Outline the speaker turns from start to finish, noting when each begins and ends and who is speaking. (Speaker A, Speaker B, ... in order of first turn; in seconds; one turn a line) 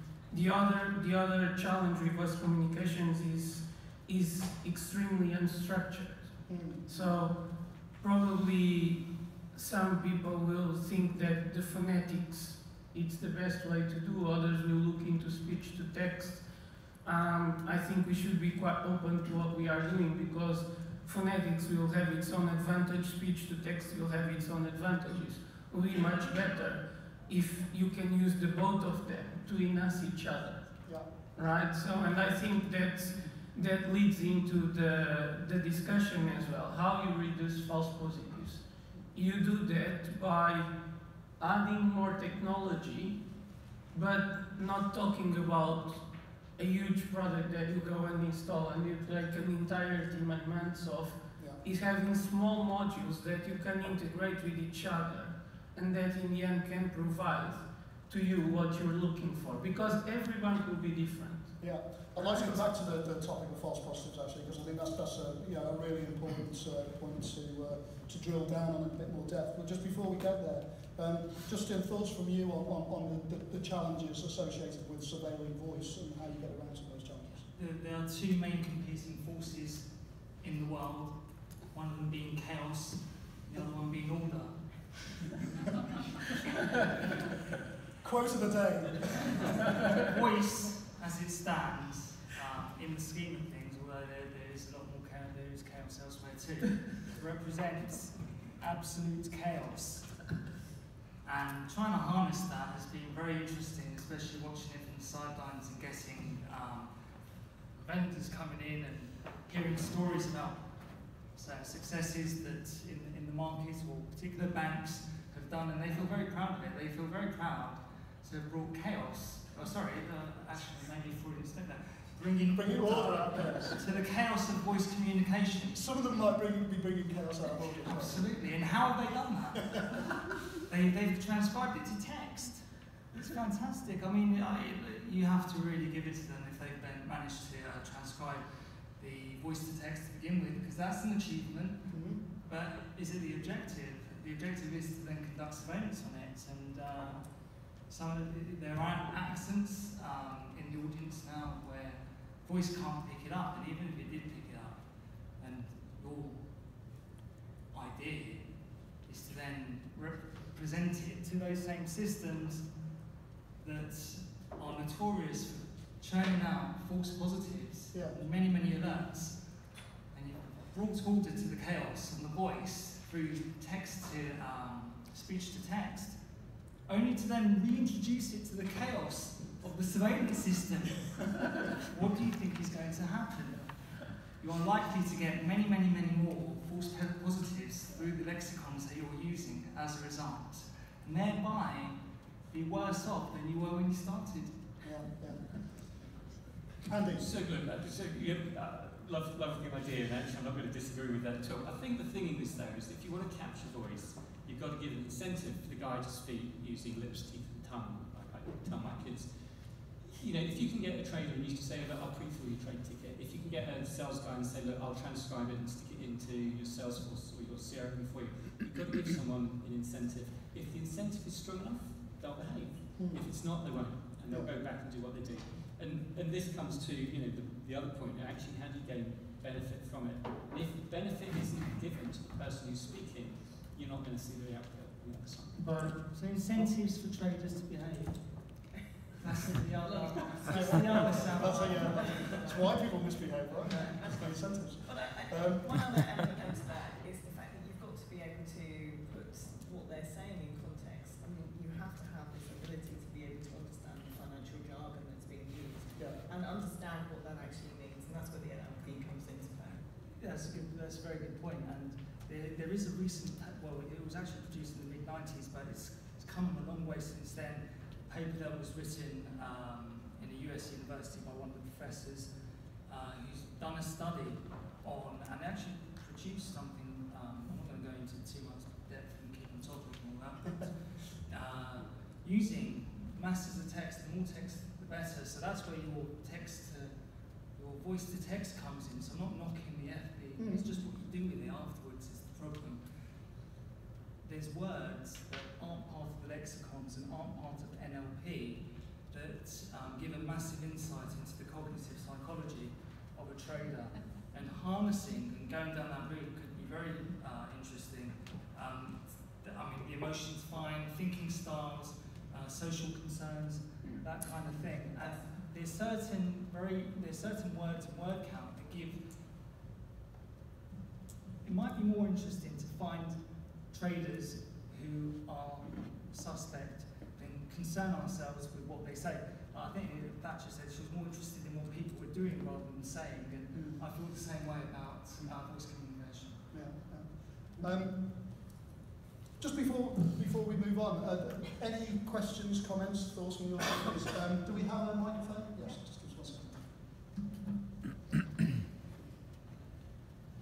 Speaker A: 0.3-6.3
Speaker B: 6.5-6.8
Speaker A: 6.8-7.4
Speaker A: 8.0-16.4
Speaker A: 17.0-30.8
Speaker A: 31.3-38.6
Speaker A: 39.1-40.7
Speaker A: 41.4-43.2
Speaker A: 43.9-46.0
Speaker A: 46.5-61.6
Speaker B: 61.6-77.5
Speaker A: 62.2-62.5
Speaker C: 77.5-85.2
Speaker B: 88.0-89.7
Speaker C: 89.9-100.3
Speaker C: 101.2-106.9
Speaker C: 107.7-110.8
Speaker C: 111.3-125.8
Speaker B: 122.5-123.9
Speaker B: 125.7-128.3
Speaker C: 127.8-138.4
Speaker C: 139.0-154.8
Speaker B: 141.9-142.2
Speaker C: 155.4-156.4
Speaker C: 157.7-158.5
Speaker C: 159.0-162.7
Speaker C: 163.6-169.5
Speaker B: 167.9-168.2
Speaker C: 170.1-176.2
Speaker C: 176.8-191.9
Speaker C: 192.5-194.5
Speaker B: 194.8-195.9
Speaker B: 196.8-197.3
Speaker D: 197.1-235.9
Speaker B: 222.9-223.2
Speaker A: 235.6-236.0
Speaker C: 236.1-238.3
Speaker C: 239.2-242.5
Speaker E: 240.1-240.7
Speaker B: 240.5-246.3
Speaker E: 241.2-242.6
Speaker E: 243.7-259.8
Speaker C: 260.2-272.3
Speaker C: 272.9-286.9
Speaker C: 287.5-292.8
Speaker B: 290.4-290.6
Speaker C: 294.2-319.1
Speaker C: 321.4-323.2
Speaker C: 323.7-336.5
Speaker B: 333.5-333.8
Speaker B: 336.5-338.5
Speaker B: 339.4-346.8